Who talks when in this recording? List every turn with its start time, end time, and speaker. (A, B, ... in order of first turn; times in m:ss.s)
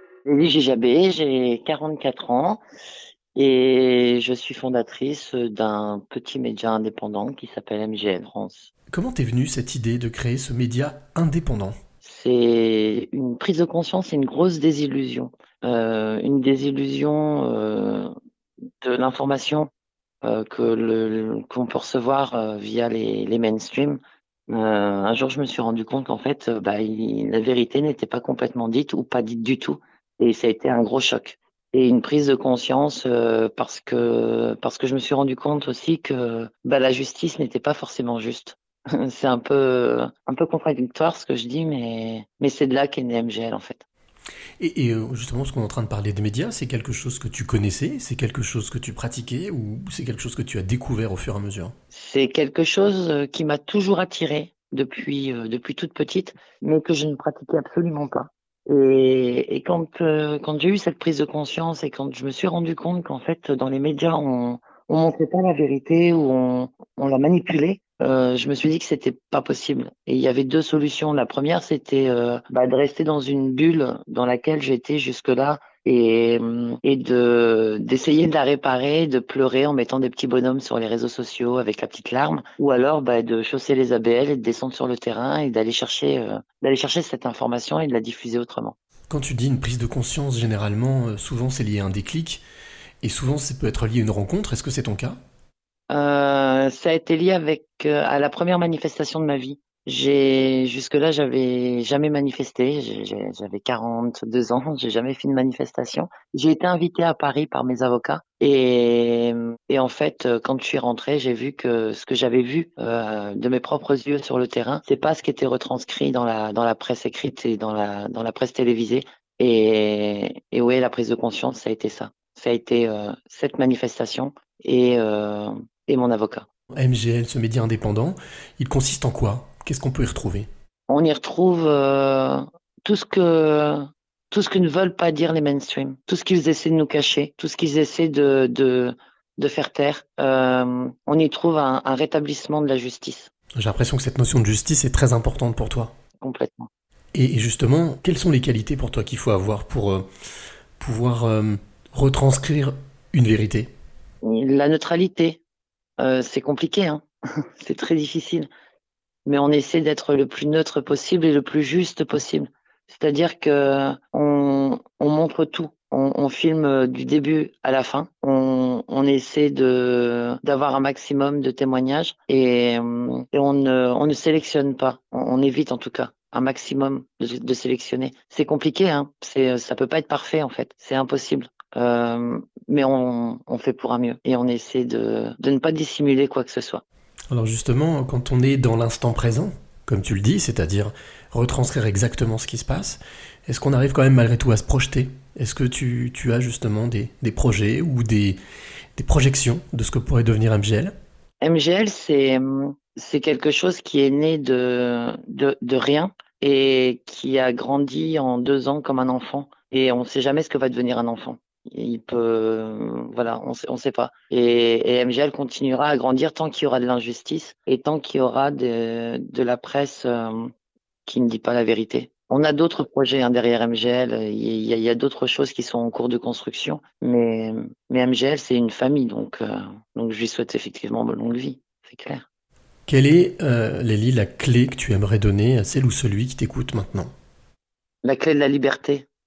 0:00.2-0:02.6 A
0:03.4-0:08.7 A
0:08.9-0:11.8 B
0:12.0-0:18.1 A
0:18.8-0:19.7 A
0:20.2-0:43.8 A
0:44.6-0:51.7 B
0:51.9-1:28.7 A
1:29.1-1:32.4 B
1:33.0-1:35.2 B
1:35.9-2:06.4 A
2:06.8-2:10.5 B
2:10.9-2:23.3 A
2:23.6-2:25.9 B
2:26.2-2:26.7 A
2:27.1-2:30.1 B
2:30.8-2:33.7 B
2:34.2-2:35.4 A
2:36.0-2:37.0 A
2:37.6-2:38.5 A
2:39.2-3:06.8 A
3:07.3-3:18.4 B
3:19.0-3:20.9 B
3:21.4-3:40.5 A
3:41.0-3:52.2 A
3:52.9-3:57.1 B
3:58.0-3:59.0 A